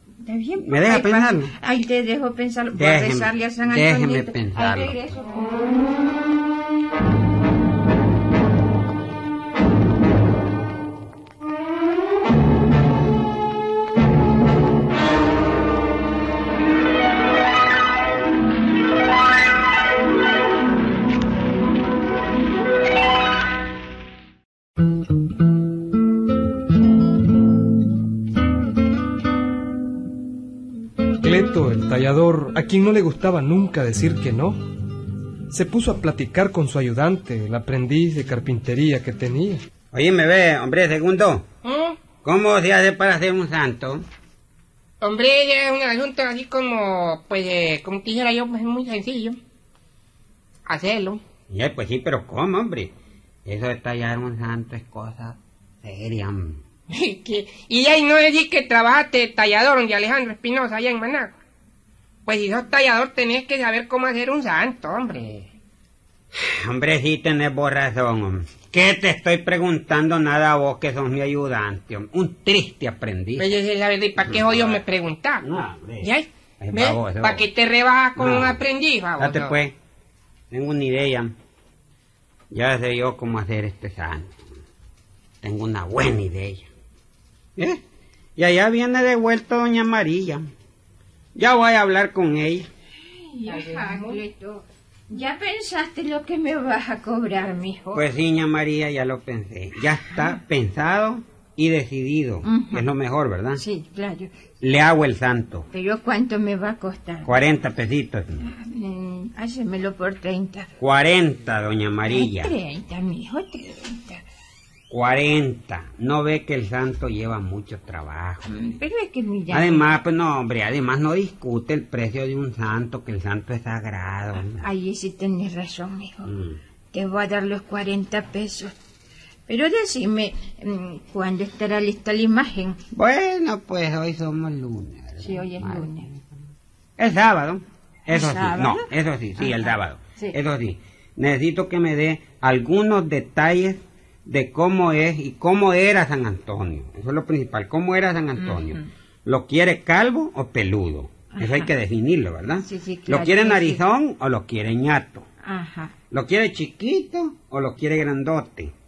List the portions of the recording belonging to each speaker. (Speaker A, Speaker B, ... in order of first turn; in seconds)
Speaker A: 0.2-5.6, 93.2-98.0, 102.4-102.9, 103.5-104.3, 105.7-107.3, 108.4-110.7, 112.1-114.2, 118.5-119.9, 124.3-126.3, 126.9-128.7, 129.5-132.8, 135.2-136.1, 138.1-140.3, 148.4-148.9, 151.3-151.7, 152.6-153.8, 155.4-155.9
Speaker B: 0.6-1.5, 2.7-5.0, 39.9-41.4, 42.2-44.0, 51.5-52.9, 53.5-56.6, 66.3-73.5, 74.2-74.8, 75.4-77.4, 78.2-78.6, 79.2-79.7, 80.5-81.3, 82.5-84.4, 85.4-86.7, 88.4-90.5, 91.3-92.7, 97.9-103.6, 104.6-105.7, 107.2-108.5, 110.8-112.5, 114.9-118.5, 119.5-124.7, 126.3-126.6, 132.9-135.9, 137.0-155.2, 156.1-158.7
Speaker C: 31.2-34.6, 35.5-39.6
Speaker D: 41.6-42.0, 45.0-49.4, 50.7-51.2, 56.9-61.3, 62.2-65.5, 73.4-75.4, 76.0-79.6, 93.5-94.2